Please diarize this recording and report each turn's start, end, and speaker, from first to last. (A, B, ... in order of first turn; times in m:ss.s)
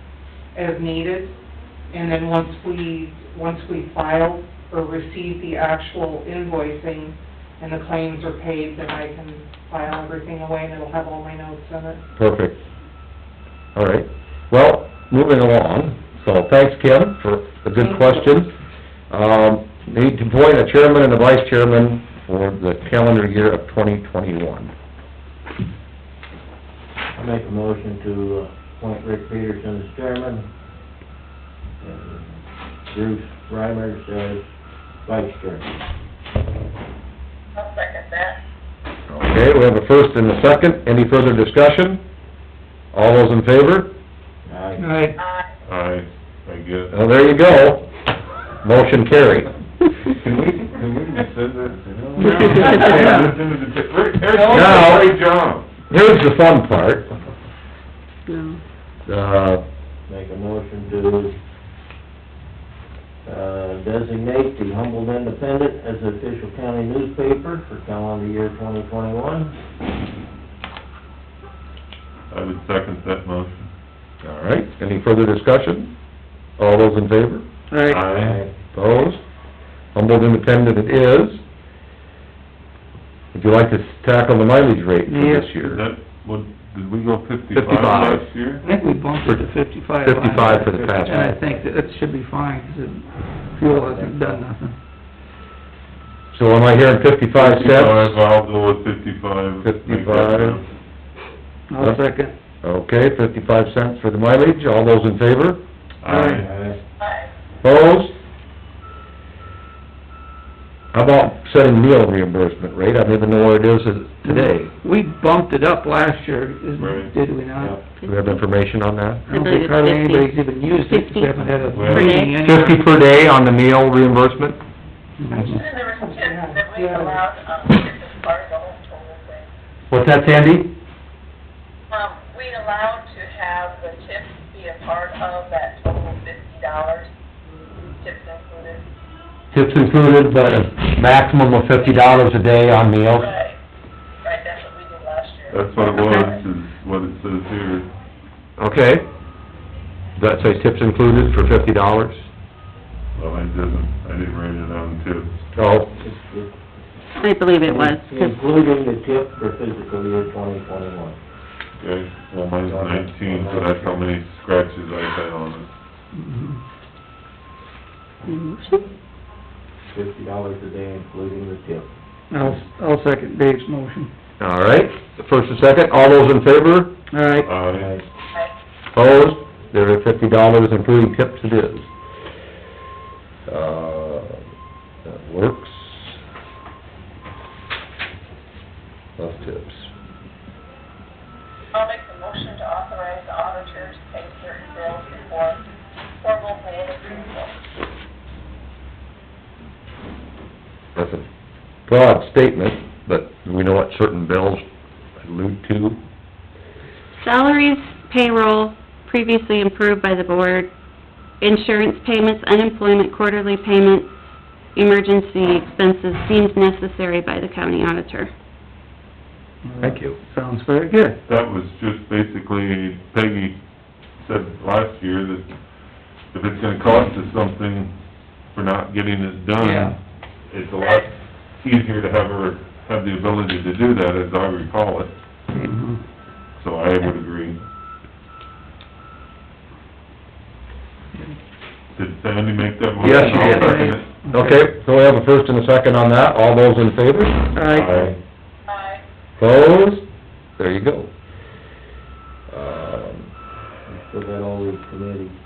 0:00.5-0:01.4 A
0:01.9-0:12.0 A
0:12.2-0:12.6 B
0:13.8-0:18.5 B
0:17.8-0:18.4 A
0:19.1-0:24.7 B
0:27.2-0:30.5 C
0:31.8-0:32.3 C
0:32.9-0:34.4 C
0:35.0-0:35.7 C
0:37.6-0:38.4 D
0:39.1-0:42.0 B
0:42.9-0:43.9 B
0:44.5-0:44.9 C
0:44.8-0:45.2 A
0:45.2-0:45.5 D
0:45.7-0:46.9 E
0:46.9-0:47.9 B
0:48.6-0:49.5 B
0:50.2-0:55.7 E
0:52.2-0:52.9 F
0:52.2-0:53.3 A
0:54.3-0:54.7 A
0:54.5-0:55.2 B
0:55.9-0:57.1 B
0:58.3-0:58.6 F
0:59.1-0:59.6 B
1:00.1-1:01.3 C
1:03.2-1:09.5 C
1:12.3-1:13.7 E
1:14.2-1:15.9 B
1:16.6-1:17.4 B
1:17.7-1:18.1 G
1:17.9-1:18.4 E
1:18.2-1:18.5 C
1:18.7-1:19.2 B
1:19.9-1:21.4 B
1:23.3-1:25.8 B
1:25.1-1:25.6 G
1:25.6-1:28.6 E
1:27.5-1:28.3 B
1:28.6-1:34.8 G
1:30.0-1:31.4 B
1:30.7-1:31.7 C
1:33.6-1:34.5 C
1:36.3-1:38.2 B
1:37.4-1:40.6 E
1:39.6-1:40.6 B
1:41.7-1:42.3 G
1:42.6-1:45.6 B
1:46.0-1:46.5 E
1:46.1-1:46.4 G
1:46.4-1:46.8 C
1:47.0-1:47.3 D
1:47.6-1:48.2 B
1:50.9-1:54.7 B
1:54.2-1:57.8 G
1:56.8-1:57.1 E
1:58.0-1:58.4 F
1:58.0-1:59.2 B
1:59.3-2:02.8 G
1:59.3-2:00.3 F
2:00.9-2:02.4 F
2:01.7-2:02.1 E
2:02.4-2:04.6 B
2:05.2-2:05.6 G
2:05.3-2:07.2 A
2:05.4-2:09.5 D
2:09.9-2:10.7 B
2:11.9-2:17.1 D
2:18.0-2:18.8 D
2:19.5-2:23.3 B
2:21.8-2:22.3 D
2:23.1-2:23.6 D
2:24.2-2:26.4 D
2:25.5-2:27.9 E
2:28.6-2:29.1 B
2:30.2-2:32.2 B
2:33.2-2:35.3 E
2:35.6-2:35.9 B
2:35.8-2:36.6 C
2:37.2-2:38.4 F
2:37.6-2:41.2 C
2:41.8-2:45.7 E
2:42.6-2:44.0 C
2:46.1-2:46.6 G
2:48.3-2:48.8 F
2:49.9-2:51.9 C
2:52.3-2:54.1 G
2:54.4-2:56.9 B
2:57.1-2:57.5 G
2:57.4-2:58.0 E
2:57.7-2:58.0 C
2:58.9-3:01.9 B
3:03.5-3:04.4 B
3:05.0-3:06.1 B
3:09.2-3:09.9 B
3:11.7-3:15.6 D
3:16.2-3:17.6 D
3:21.0-3:21.2 B
3:21.9-3:24.7 B
3:25.2-3:26.0 B
3:27.2-3:30.7 F
3:31.4-3:34.1 F
3:34.8-3:38.3 F
3:39.6-3:41.2 G
3:39.8-3:40.2 B
3:41.3-3:43.6 E
3:44.2-3:45.5 E
3:46.3-3:48.0 E
3:48.5-3:50.0 E
3:49.6-3:50.0 G
3:50.5-3:55.1 E
3:55.6-3:56.0 G
3:56.6-3:57.6 E
4:02.0-4:04.2 E
4:03.0-4:07.4 B
4:03.0-4:04.7 G
4:07.5-4:08.0 G
4:07.7-4:08.2 E
4:08.7-4:09.0 D
4:09.4-4:10.1 B
4:10.6-4:11.1 B
4:12.5-4:13.3 B
4:13.9-4:15.4 C